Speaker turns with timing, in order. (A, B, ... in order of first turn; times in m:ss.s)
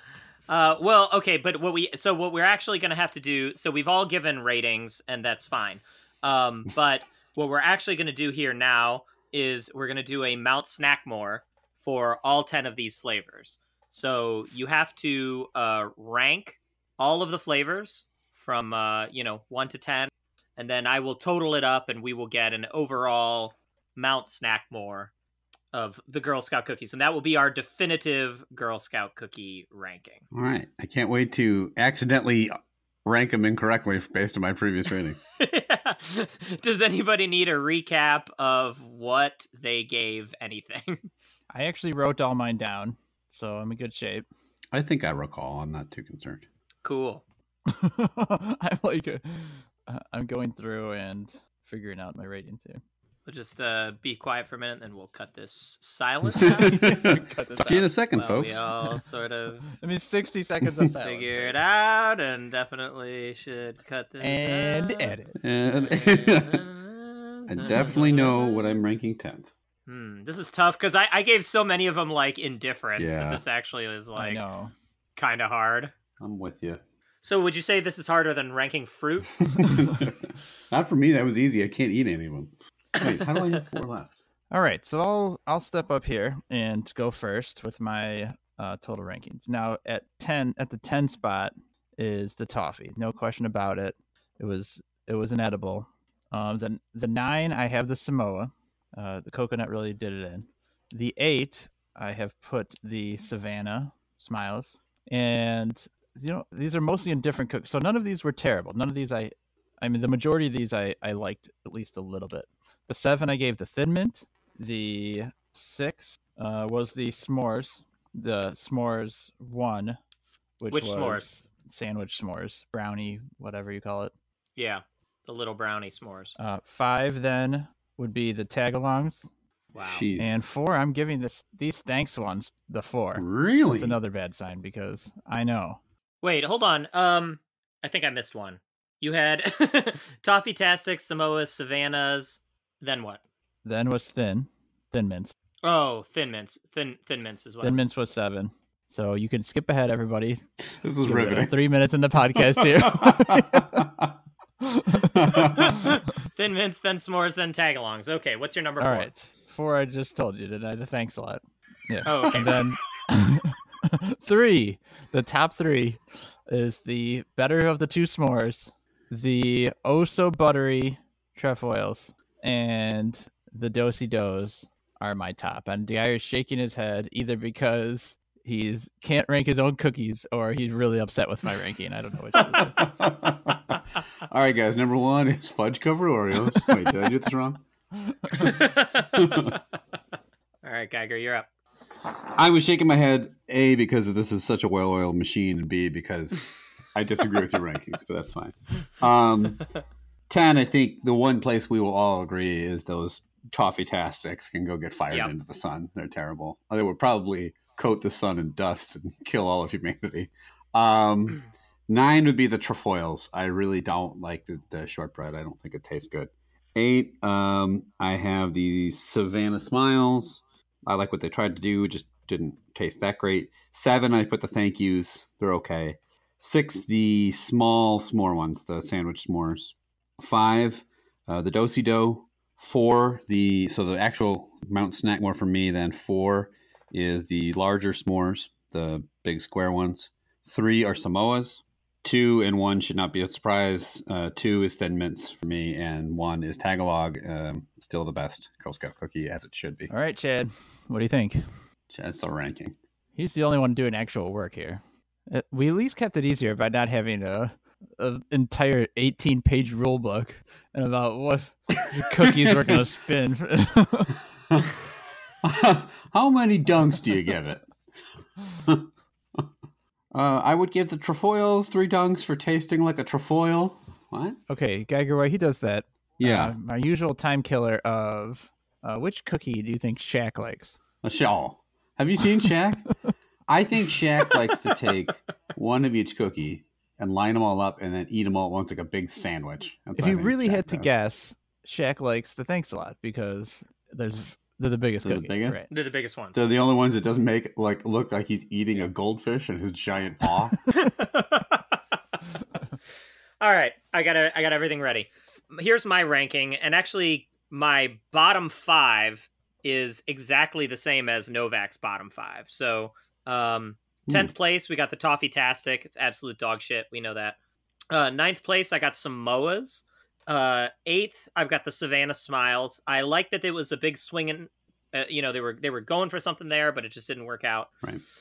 0:00.5-0:25.1 A
0:25.7-0:30.2 A
0:30.3-0:35.2 B
0:35.4-0:41.1 A
0:41.5-0:44.2 C
0:44.7-0:46.4 B
0:46.8-0:47.2 A
0:47.6-0:52.8 C
0:53.2-0:56.8 A
0:56.4-0:58.6 B
0:56.4-0:57.9 C
0:58.1-0:59.8 A
0:59.8-1:01.5 C
1:01.0-1:05.2 A
1:04.2-1:05.3 C
1:05.4-1:06.6 B
1:05.8-1:08.7 A
1:07.5-1:09.5 B
1:09.9-1:14.4 A
1:13.0-1:13.4 B
1:14.1-1:14.7 C
1:15.2-1:15.9 A
1:16.2-1:16.8 B
1:17.2-1:19.8 A
1:19.5-1:24.1 B
1:23.0-1:23.6 A
1:24.5-2:00.0 C
2:00.6-2:04.1 C
2:00.7-2:01.2 A
2:04.6-2:06.4 A
2:06.4-2:09.3 C
2:09.7-2:10.0 A
2:09.9-2:10.3 B
2:10.2-2:15.8 C
2:13.2-2:14.0 B
2:16.2-2:23.2 A
2:23.6-2:25.3 C
2:25.6-2:28.0 A
2:27.6-2:30.4 C
2:30.8-2:31.6 B
2:31.0-2:33.9 C
2:32.3-2:34.1 B
2:34.6-2:35.6 C
2:35.0-2:35.9 B
2:35.3-2:39.1 A
2:38.8-3:02.9 C
2:42.0-2:42.6 A
3:02.6-3:07.6 B
3:08.3-3:09.6 A
3:09.1-3:09.6 B
3:10.6-3:11.5 A
3:12.4-3:19.6 B
3:20.3-4:09.9 B
4:09.9-4:11.5 C
4:11.9-4:12.8 B
4:13.2-4:24.2 C
4:22.2-4:22.8 B
4:25.4-4:27.7 B
4:28.6-4:29.5 B
4:30.1-4:34.4 B
4:34.5-4:40.8 C
4:36.2-4:36.5 B
4:41.0-4:42.9 B
4:43.5-4:50.9 B
4:50.0-4:55.7 C
4:55.0-4:55.6 B
4:55.7-4:56.4 A
4:56.3-5:00.6 B
5:00.8-5:01.8 A
5:03.4-5:17.4 A
5:14.1-5:14.3 B
5:17.9-5:27.7 A